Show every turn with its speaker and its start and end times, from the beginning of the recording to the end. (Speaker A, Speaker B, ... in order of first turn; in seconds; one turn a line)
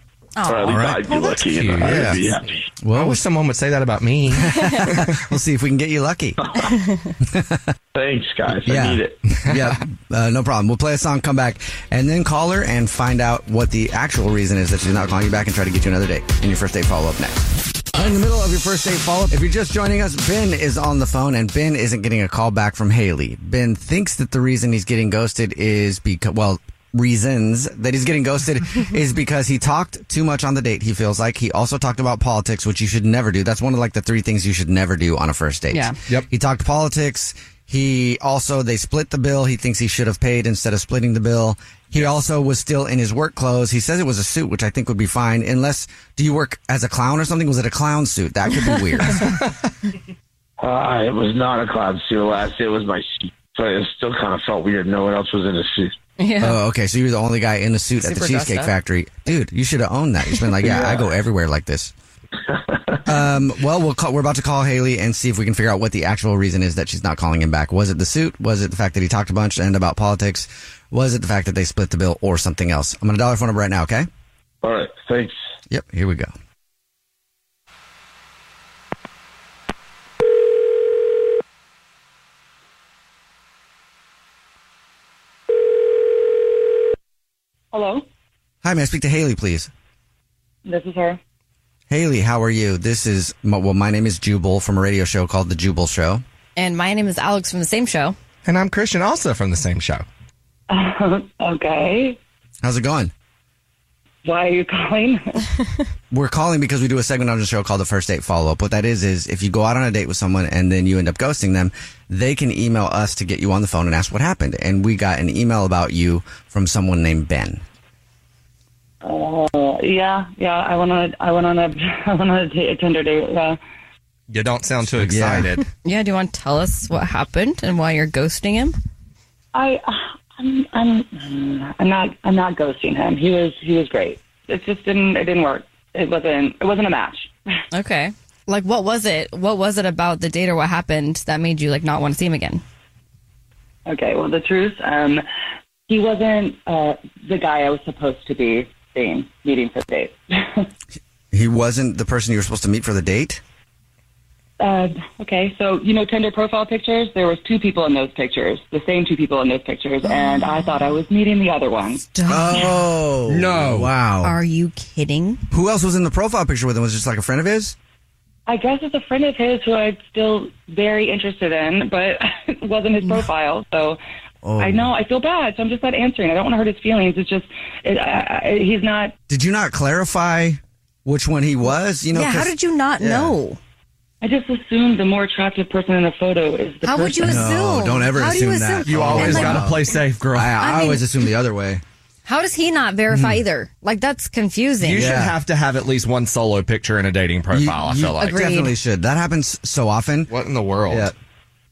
Speaker A: 0.4-2.7
Speaker B: 0.7-1.1
Speaker C: 1.4-2.3
Speaker B: 1.8-2.2
Speaker B: 2.8-3.2
Speaker C: 2.9-5.2
Speaker B: 4.3-6.4
Speaker A: 6.4-6.7
Speaker B: 7.2-7.7
Speaker A: 7.9-9.2
Speaker B: 8.6-49.2
Speaker C: 9.3-9.8
Speaker A: 50.6-55.9
Speaker D: 56.2-56.6
Speaker B: 56.4-61.9
Speaker D: 58.0-58.7
Speaker A: 60.6-61.0
Speaker B: 63.0-74.1
Speaker A: 74.6-75.3
Speaker B: 75.7-76.3
Speaker E: 87.7-88.0
Speaker B: 88.6-89.7
Speaker E: 90.6-91.2
Speaker B: 91.9-96.2
Speaker D: 96.5-98.2
Speaker C: 98.4-100.0
Speaker E: 100.7-102.2
Speaker B: 102.6-103.1
Speaker E: 104.2-105.5
Speaker B: 106.1-117.6
Speaker E: 119.0-123.6
Speaker C: 124.3-125.6
Speaker B: 125.0-125.5
Speaker D: 125.8-128.8
Speaker E: 129.5-137.3
Speaker D: 137.7-142.6
Speaker E: 143.8-145.2
Speaker E: 145.9-150.7
Speaker B: 151.3-153.4
Speaker E: 154.6-162.1
Speaker D: 162.1-162.4
Speaker B: 162.3-164.4
Speaker C: 163.3-163.9
Speaker D: 164.2-165.4
Speaker B: 165.5-167.7
Speaker E: 168.5-174.0
Speaker B: 174.4-174.9
Speaker E: 174.6-179.1
Speaker B: 179.3-183.4
Speaker D: 182.1-183.6
Speaker E: 184.2-187.4
Speaker D: 186.9-189.5
Speaker B: 187.2-191.8
Speaker C: 188.8-190.6
Speaker D: 190.7-191.0
Speaker D: 192.2-195.0
Speaker B: 193.1-193.4
Speaker C: 194.8-198.4
Speaker B: 194.9-195.3
Speaker B: 197.5-200.3
Speaker D: 198.4-198.6
Speaker C: 200.3-201.1
Speaker B: 200.9-201.1